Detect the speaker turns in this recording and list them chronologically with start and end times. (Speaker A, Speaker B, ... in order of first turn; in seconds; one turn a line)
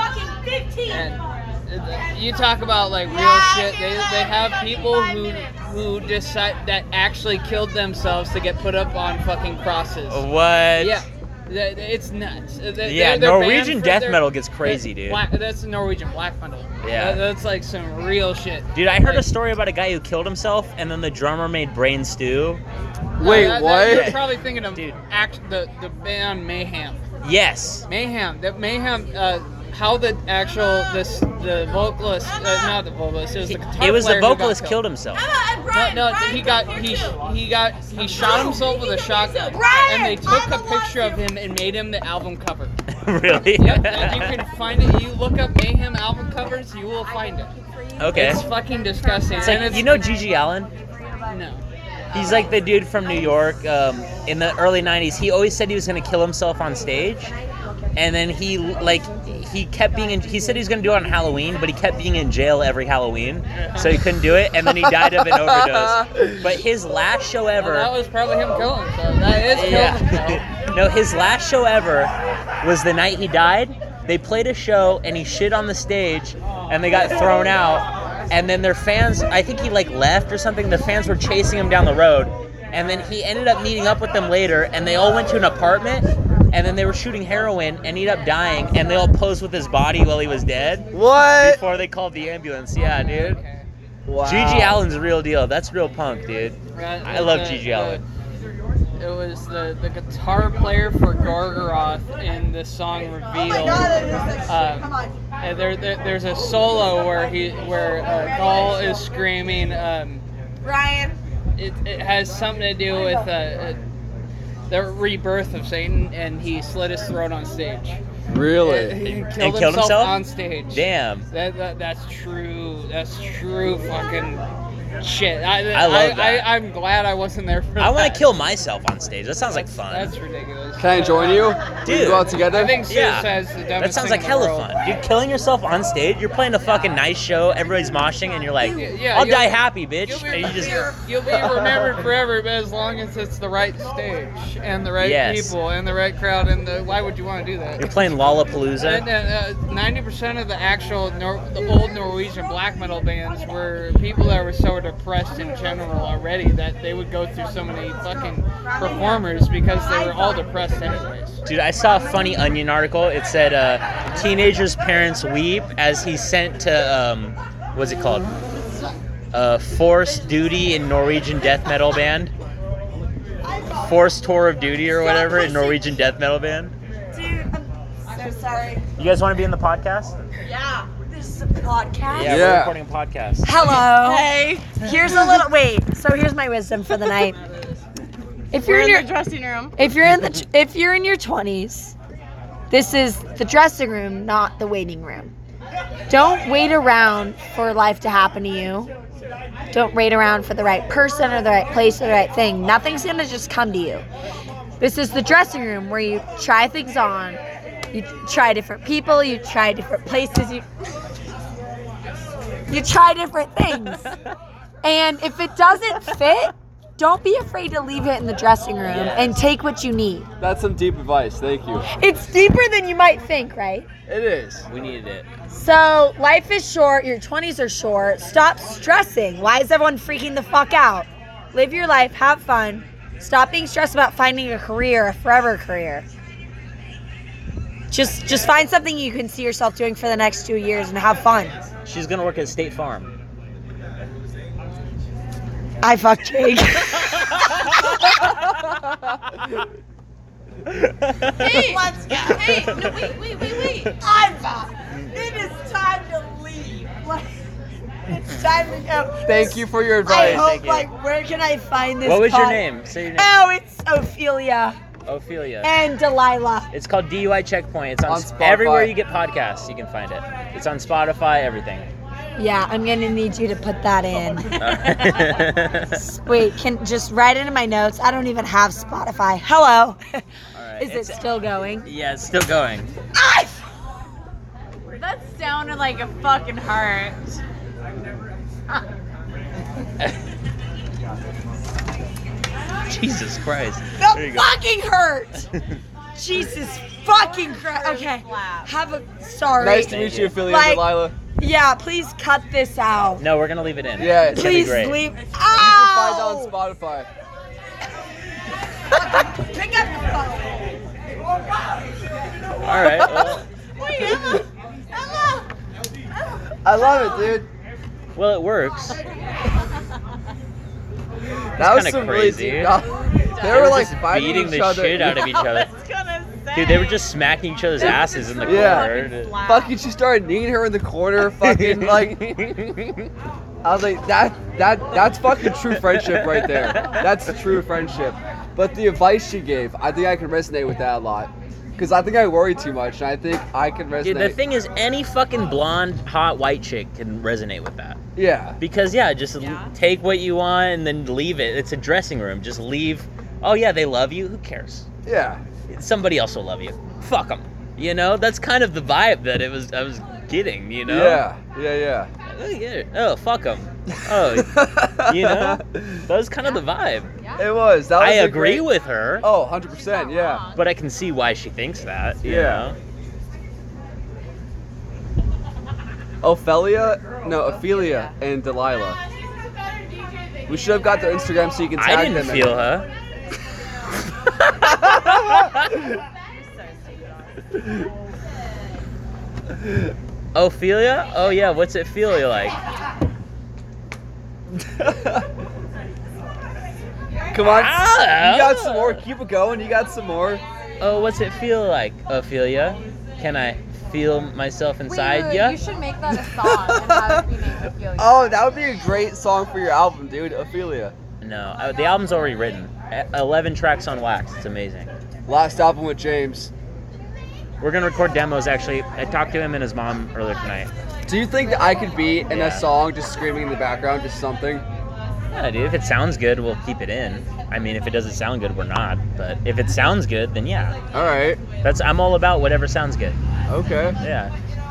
Speaker A: 0.9-10.2
Speaker B: 10.1-11.1
Speaker A: 10.8-19.3
Speaker B: 12.8-15.2
Speaker B: 16.8-17.2
Speaker B: 18.7-22.6
Speaker C: 23.2-24.2
Speaker A: 23.2-27.0
Speaker B: 23.2-25.0
Speaker B: 27.2-27.9
Speaker A: 27.9-34.8
Speaker B: 33.5-35.2
Speaker A: 35.7-42.8
Speaker B: 42.9-44.4
Speaker A: 43.6-47.5
Speaker B: 48.0-48.4
Speaker A: 48.1-50.1
Speaker B: 49.4-50.7
Speaker A: 51.3-51.6
Speaker D: 52.1-52.4
Speaker B: 52.1-57.3
Speaker B: 58.0-67.9
Speaker A: 63.5-64.0
Speaker C: 64.7-66.6
Speaker A: 67.6-70.5
Speaker B: 69.5-93.4
Speaker C: 90.9-91.6
Speaker A: 92.9-93.7
Speaker C: 94.1-94.8
Speaker B: 94.2-98.0
Speaker A: 96.7-98.0
Speaker A: 99.0-110.2
Speaker A: 111.6-113.8
Speaker A: 114.7-118.0
Speaker C: 118.3-119.0
Speaker A: 118.6-124.4
Speaker B: 119.0-121.3
Speaker A: 125.0-128.3
Speaker B: 125.7-126.5
Speaker B: 127.8-130.1
Speaker A: 129.5-131.5
Speaker C: 130.8-132.8
Speaker B: 131.8-141.0
Speaker A: 132.4-134.7
Speaker A: 138.7-148.0
Speaker B: 145.0-145.5
Speaker B: 147.8-149.1
Speaker A: 148.8-161.4
Speaker B: 161.5-168.3
Speaker B: 169.3-172.3
Speaker B: 173.8-176.7
Speaker E: 175.0-175.8
Speaker E: 177.1-178.8
Speaker B: 179.0-180.2
Speaker E: 180.5-182.5
Speaker B: 182.1-183.5
Speaker C: 182.2-182.8
Speaker E: 183.4-187.4
Speaker D: 183.6-185.4
Speaker E: 188.5-189.1
Speaker D: 188.6-189.8
Speaker E: 189.8-191.9
Speaker E: 192.7-195.3
Speaker E: 196.1-198.9
Speaker E: 199.7-204.1
Speaker E: 204.8-207.4
Speaker E: 207.9-210.7
Speaker E: 212.7-214.2
Speaker E: 214.8-220.3
Speaker B: 218.8-219.4
Speaker C: 220.4-221.9
Speaker E: 221.9-223.9
Speaker C: 224.1-224.7
Speaker B: 224.7-225.3
Speaker E: 225.5-236.1
Speaker E: 237.9-241.7
Speaker B: 241.8-243.1
Speaker E: 245.8-248.4
Speaker B: 247.3-248.3
Speaker B: 250.7-251.6
Speaker D: 251.3-254.0
Speaker E: 251.4-253.1
Speaker B: 252.3-252.8
Speaker E: 254.0-257.4
Speaker E: 258.1-264.8
Speaker C: 259.2-260.6
Speaker B: 260.1-260.9
Speaker B: 262.0-263.3
Speaker B: 265.1-265.7
Speaker E: 265.6-266.7
Speaker B: 266.7-271.9
Speaker C: 268.1-268.9
Speaker E: 272.4-280.2
Speaker D: 274.5-275.2
Speaker B: 274.6-276.0
Speaker B: 280.6-282.9
Speaker E: 280.8-281.9
Speaker E: 283.1-283.6
Speaker D: 284.9-287.4
Speaker B: 292.9-294.5
Speaker E: 294.0-295.5
Speaker B: 295.5-295.8
Speaker E: 296.1-303.2
Speaker D: 297.2-298.8
Speaker C: 299.6-301.1
Speaker B: 299.8-300.4
Speaker B: 303.2-305.0
Speaker C: 304.0-304.7
Speaker E: 304.2-306.5
Speaker C: 305.5-307.1
Speaker E: 309.1-310.6
Speaker B: 312.6-313.5
Speaker C: 312.9-313.3
Speaker C: 316.6-317.5
Speaker B: 318.2-319.0
Speaker C: 321.6-325.3
Speaker B: 321.6-322.7
Speaker D: 322.7-323.8
Speaker B: 323.4-325.7
Speaker D: 325.1-327.0
Speaker B: 326.5-329.4
Speaker D: 327.8-329.8
Speaker C: 328.4-332.4
Speaker B: 331.3-333.1
Speaker C: 333.6-344.4
Speaker B: 335.6-337.1
Speaker B: 344.0-348.0
Speaker C: 348.2-348.6
Speaker B: 348.6-354.9
Speaker D: 349.4-349.7
Speaker C: 355.1-355.4
Speaker B: 355.7-361.2
Speaker C: 360.9-362.1
Speaker B: 362.3-367.1
Speaker C: 364.1-366.1
Speaker D: 367.2-367.5
Speaker C: 367.4-368.7
Speaker B: 368.0-369.3
Speaker C: 369.2-370.5
Speaker D: 369.7-370.7
Speaker B: 370.6-372.8
Speaker C: 372.2-372.7
Speaker C: 376.2-379.0
Speaker D: 377.6-378.1
Speaker C: 380.5-382.6
Speaker B: 381.8-382.9
Speaker B: 384.4-385.7
Speaker D: 386.2-387.5
Speaker B: 390.4-392.6
Speaker C: 394.6-395.3
Speaker C: 397.3-400.4
Speaker B: 397.4-399.0
Speaker B: 400.8-405.6
Speaker D: 404.9-408.4
Speaker C: 406.1-407.3
Speaker C: 408.0-410.9
Speaker B: 411.2-414.9
Speaker C: 415.3-416.5
Speaker B: 417.6-420.7
Speaker C: 421.1-424.6
Speaker B: 422.3-422.7
Speaker B: 425.3-430.8
Speaker C: 430.9-431.4
Speaker B: 431.6-433.2
Speaker C: 433.5-434.0
Speaker B: 434.0-434.3